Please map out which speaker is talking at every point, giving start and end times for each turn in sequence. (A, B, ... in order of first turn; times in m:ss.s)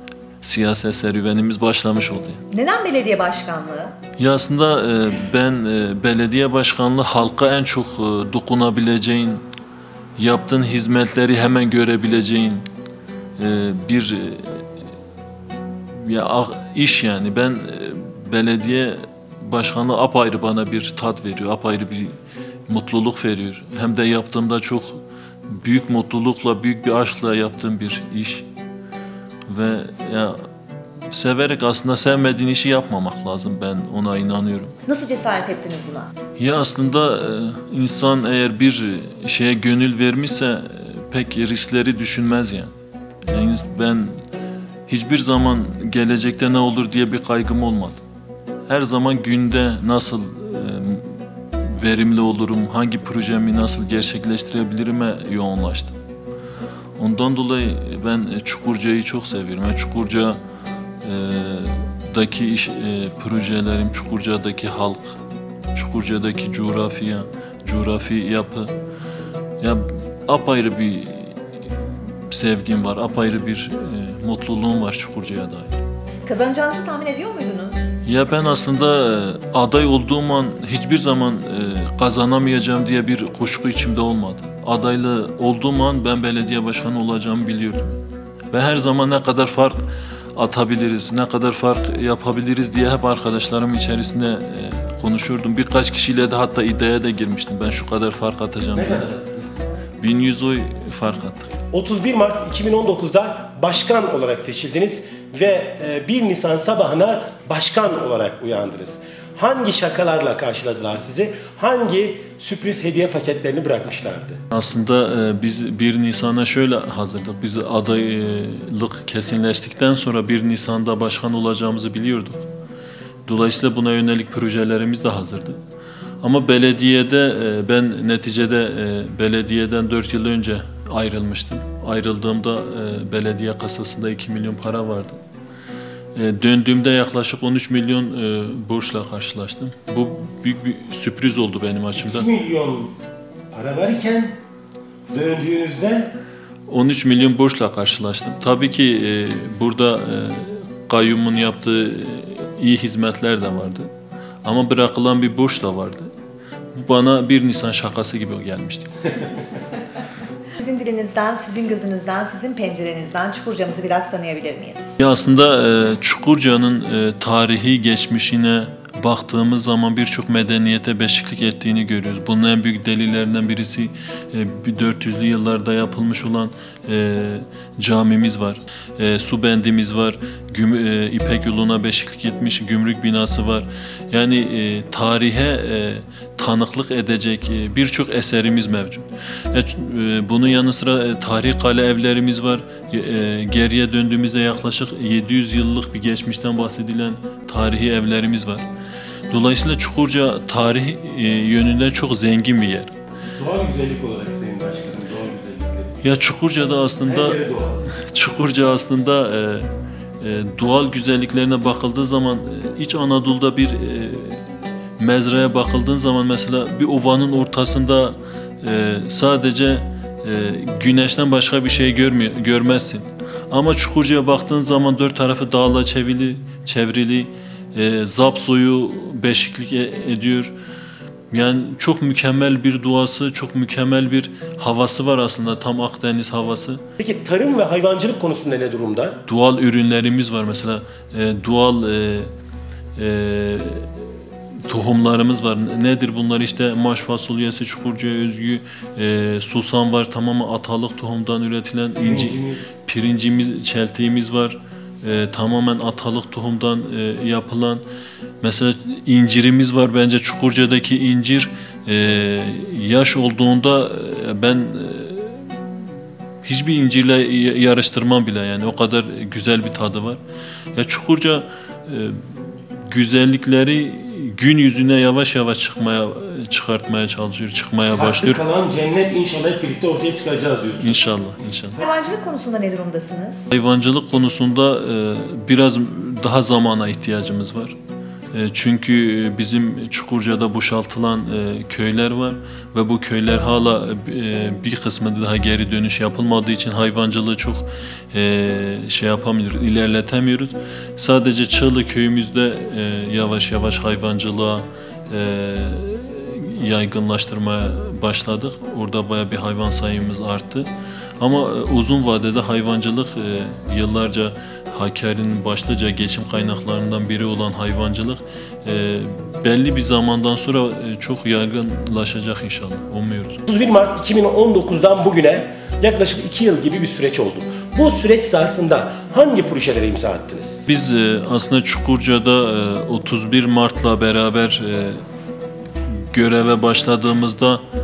0:00.4-0:02.4 A
0:02.5-0:03.9 B
0:04.2-0:09.4 A
0:10.2-0:12.6 A
0:13.4-0:14.6 A
0:16.0-0:22.1 A
0:22.7-0:28.4 A
0:29.5-0:30.4 A
0:31.1-0:34.7 A
0:34.9-0:36.1 B
0:36.4-0:42.7 A
0:43.2-0:44.2 A
0:44.9-0:48.0 A
0:48.7-0:51.2 A
0:51.7-0:55.9 A
0:57.0-1:00.4 A
1:01.0-1:05.2 A
1:05.7-1:08.7 A
1:09.6-1:11.4 A
1:12.3-1:15.8 A
1:16.2-1:17.8 B
1:18.0-1:27.9 A
1:28.5-1:29.8 A
1:30.4-1:39.1 A
1:38.7-1:39.5 C
1:40.0-1:41.5 A
1:41.7-1:54.4 C
1:54.5-2:02.4 A
2:03.2-2:05.6 A
2:06.2-2:15.2 A
2:16.1-2:22.3 A
2:22.0-2:22.9 C
2:23.5-2:24.4 C
2:25.1-2:26.1 C
2:26.7-2:33.9 A
2:34.4-2:36.1 A
2:36.7-2:38.9 A
2:40.6-2:44.9 B
2:45.0-3:18.6 A
3:19.3-3:22.9 A
3:23.4-3:26.0 C
3:26.0-3:27.4 A
3:27.0-3:27.8 C
3:28.0-3:29.7 A
3:30.2-3:34.4 A
3:35.0-3:50.5 A
3:51.3-3:56.8 A
3:57.0-3:59.2 C
3:59.2-4:02.3 A
4:03.0-4:03.8 A
4:04.7-4:17.8 A
4:12.0-4:12.7 C
4:18.4-4:25.6 A
4:26.4-4:30.2 A
4:30.7-4:38.4 A
4:37.9-4:41.0 C
4:40.8-4:41.8 A
4:41.8-4:43.5 B
4:43.5-4:47.8 A
4:48.3-5:10.7 A
5:11.2-5:23.4 A
5:23.5-5:30.6 C
5:30.7-5:35.0 A
5:35.9-5:37.6 A